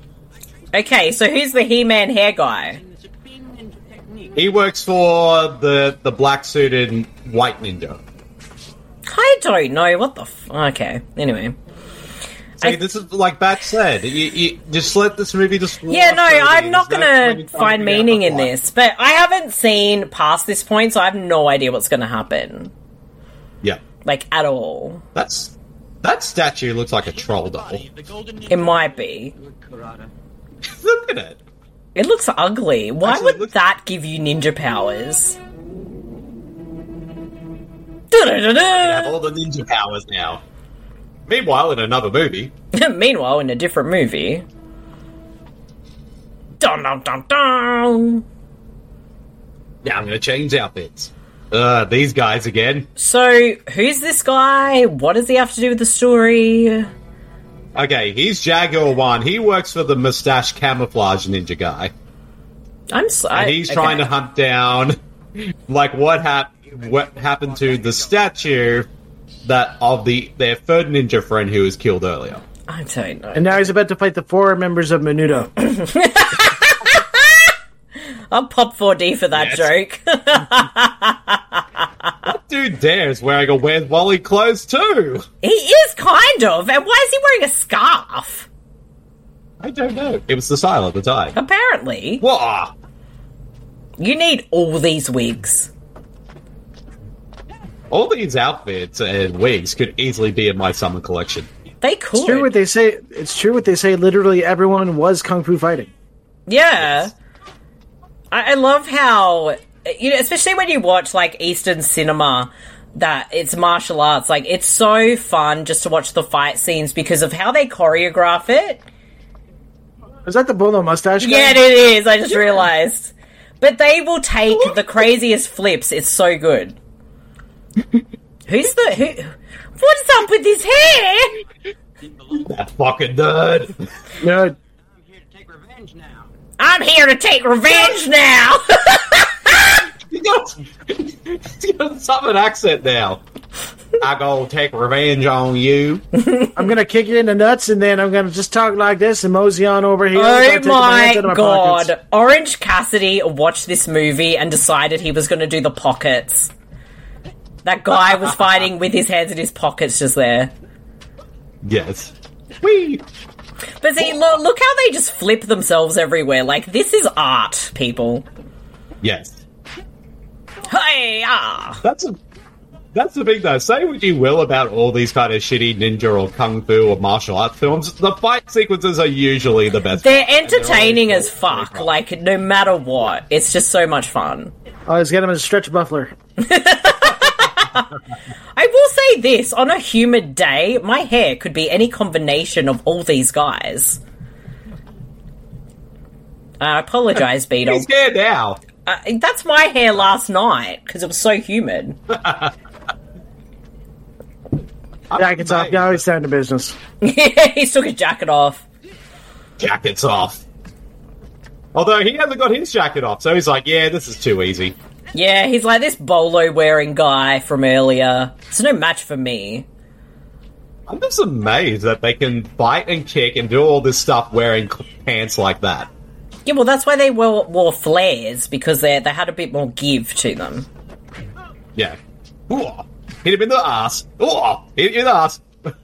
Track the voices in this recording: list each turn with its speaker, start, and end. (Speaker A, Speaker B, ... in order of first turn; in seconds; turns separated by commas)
Speaker A: 0.7-2.8, Speaker B: 2.7-4.4, Speaker C: 4.3-8.0, Speaker A: 9.1-11.6, Speaker C: 12.6-18.5, Speaker A: 15.9-22.7, Speaker A: 24.0-25.0, Speaker C: 25.1-27.8, Speaker B: 27.0-30.1, Speaker A: 28.5-29.3, Speaker C: 30.7-31.4, Speaker A: 31.9-35.4, Speaker C: 33.0-33.5, Speaker A: 38.1-39.2, Speaker C: 38.5-40.4, Speaker C: 41.3-42.5, Speaker A: 42.7-44.5, Speaker A: 46.6-48.2, Speaker C: 49.8-52.9, Speaker A: 53.0-56.9, Speaker C: 57.7-61.9, Speaker A: 62.9-64.1, Speaker C: 63.3-65.0, Speaker C: 65.7-68.9, Speaker B: 66.7-68.5, Speaker C: 69.4-72.4, Speaker A: 72.7-73.7, Speaker D: 73.3-75.5, Speaker A: 75.6-77.5, Speaker A: 78.3-82.1, Speaker C: 79.3-79.7, Speaker C: 82.2-85.2, Speaker A: 85.4-88.5, Speaker C: 89.6-91.3, Speaker A: 91.3-92.2, Speaker C: 92.2-92.7, Speaker A: 94.0-95.7, Speaker C: 97.9-101.5, Speaker A: 101.8-102.5, Speaker D: 102.1-105.9, Speaker A: 106.5-107.1, Speaker C: 106.8-107.1, Speaker A: 108.3-118.8, Speaker D: 120.2-121.6, Speaker A: 121.2-126.8, Speaker A: 128.5-131.4, Speaker B: 132.0-132.5, Speaker C: 132.4-133.8, Speaker D: 134.2-134.6, Speaker B: 134.8-136.3, Speaker A: 136.6-139.8, Speaker C: 140.0-143.2, Speaker C: 144.0-146.0, Speaker A: 146.2-146.6, Speaker D: 146.5-151.9, Speaker A: 150.1-156.5, Speaker A: 157.6-160.5, Speaker C: 161.6-163.0, Speaker A: 163.8-168.2, Speaker C: 164.0-164.3, Speaker C: 169.0-169.4, Speaker A: 170.7-171.8, Speaker C: 171.8-172.2, Speaker C: 172.9-181.9, Speaker A: 180.0-184.5, Speaker D: 184.9-186.1, Speaker A: 186.4-187.9, Speaker A: 188.5-194.0, Speaker A: 196.6-197.9, Speaker C: 197.6-198.6, Speaker A: 198.8-202.0, Speaker C: 202.1-202.5, Speaker C: 205.1-206.0, Speaker D: 205.2-206.8, Speaker A: 207.0-208.7, Speaker C: 209.6-210.4, Speaker C: 211.7-214.8, Speaker A: 215.1-219.7, Speaker C: 220.9-225.9, Speaker A: 226.4-230.7, Speaker C: 232.5-235.5